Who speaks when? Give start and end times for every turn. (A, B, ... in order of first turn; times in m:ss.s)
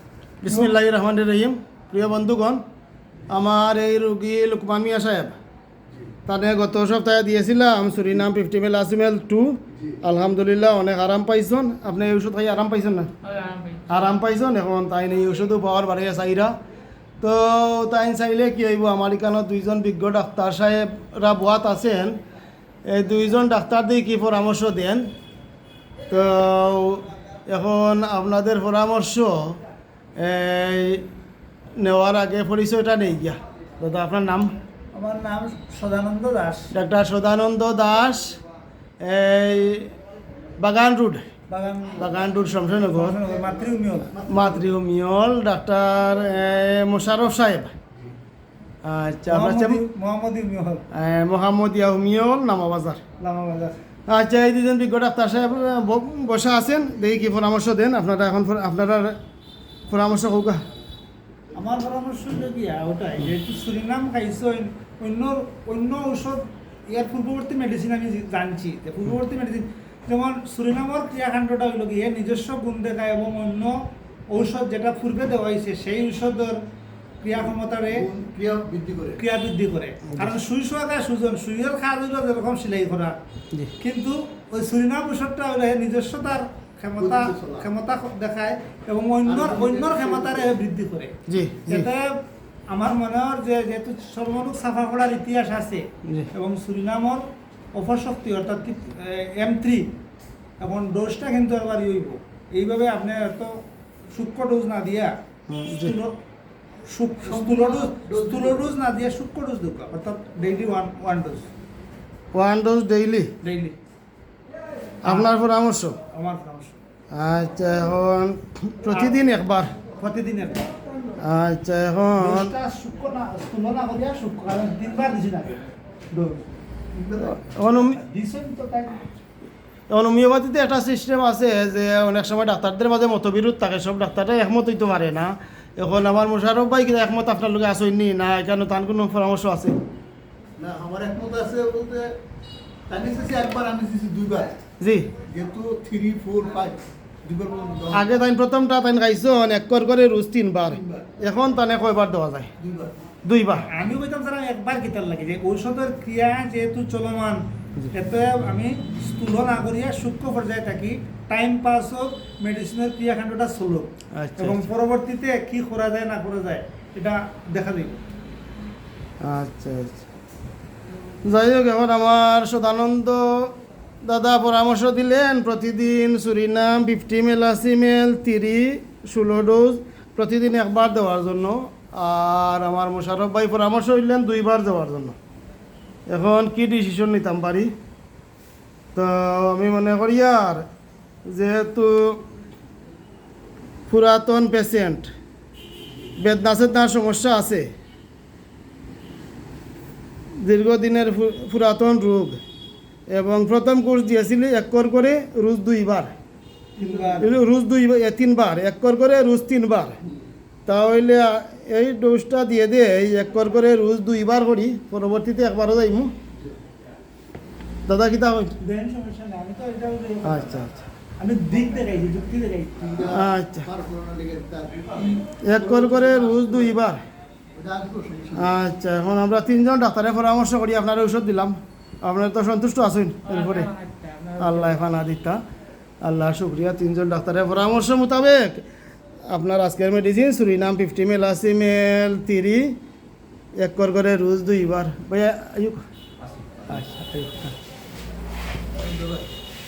0:00.4-0:02.6 A
0:00.5-0:00.7 B
0:03.3-0:05.4 A
0:06.3-0:13.1 A
0:13.9-0:16.5 A
0:17.2-0:22.2 A
0:22.8-0:25.1 A
0:26.1-0:29.6 A
0:30.2-0:31.0 A
0:31.8-0:34.6 A
0:34.9-0:36.7 B
0:36.7-0:38.4 A
0:39.0-0:39.9 A
0:40.6-0:41.3 A
0:41.5-0:42.1 B
0:42.0-0:43.2 A
0:42.9-0:44.2 B
0:44.1-0:44.4 C
0:44.3-0:47.7 A
0:48.8-0:49.8 A
0:49.3-0:50.8 B
0:50.9-0:53.0 A
0:53.2-0:53.8 B
0:54.1-0:59.2 A
0:59.9-1:00.6 A
1:01.5-1:16.6 B
1:17.2-1:18.1 B
1:17.9-1:19.2 C
1:19.2-1:23.1 B
1:20.1-1:20.4 A
1:23.8-1:32.2 B
1:27.0-1:27.7 C
1:29.2-1:30.5 C
1:31.3-1:31.9 A
1:32.7-1:39.9 B
1:40.6-1:43.6 B
1:44.1-1:45.1 B
1:45.5-1:46.0 A
1:45.7-1:46.2 B
1:46.9-1:51.5 B
1:47.2-1:48.7 C
1:52.3-1:53.3 A
1:53.4-1:53.8 B
1:55.0-1:56.0 A
1:55.0-1:55.3 B
1:56.1-1:56.8 B
1:57.1-1:59.7 A
1:58.9-1:59.2 B
1:59.9-2:00.7 B
2:01.2-2:02.5 A
2:02.2-2:06.4 B
2:06.9-2:07.5 C
2:07.2-2:08.0 A
2:07.8-2:09.2 B
2:09.9-2:19.8 A
2:20.6-2:22.2 C
2:22.9-2:24.6 C
2:24.8-2:25.1 A
2:25.2-2:28.2 C
2:27.9-2:32.5 A
2:30.8-2:31.1 C
2:32.6-2:33.0 C
2:33.2-2:33.7 A
2:33.7-2:37.4 B
2:37.9-2:48.0 B
2:44.2-2:44.7 A
2:49.2-2:50.0 A
2:51.2-3:05.2 A
3:06.1-3:07.7 A
3:08.9-3:10.6 A
3:11.3-3:12.2 A
3:13.9-3:15.1 A
3:16.2-3:17.7 A
3:20.4-3:22.4 A
3:23.1-3:26.1 A
3:26.8-3:27.4 B
3:26.8-3:27.2 C
3:27.2-3:30.0 A
3:30.7-3:36.1 A
3:37.9-3:38.5 A
3:38.6-3:40.7 B
3:40.2-3:40.8 A
3:41.2-3:43.2 B
3:42.8-3:46.7 C
3:43.0-3:43.7 A
3:45.3-3:47.0 A
3:47.6-3:48.5 C
3:48.4-3:53.8 A
3:54.3-3:54.6 B
3:54.4-3:55.4 A
3:56.0-3:58.6 A
3:59.3-4:02.8 A
4:03.6-4:05.8 A
4:06.7-4:07.5 A
4:08.8-4:09.2 C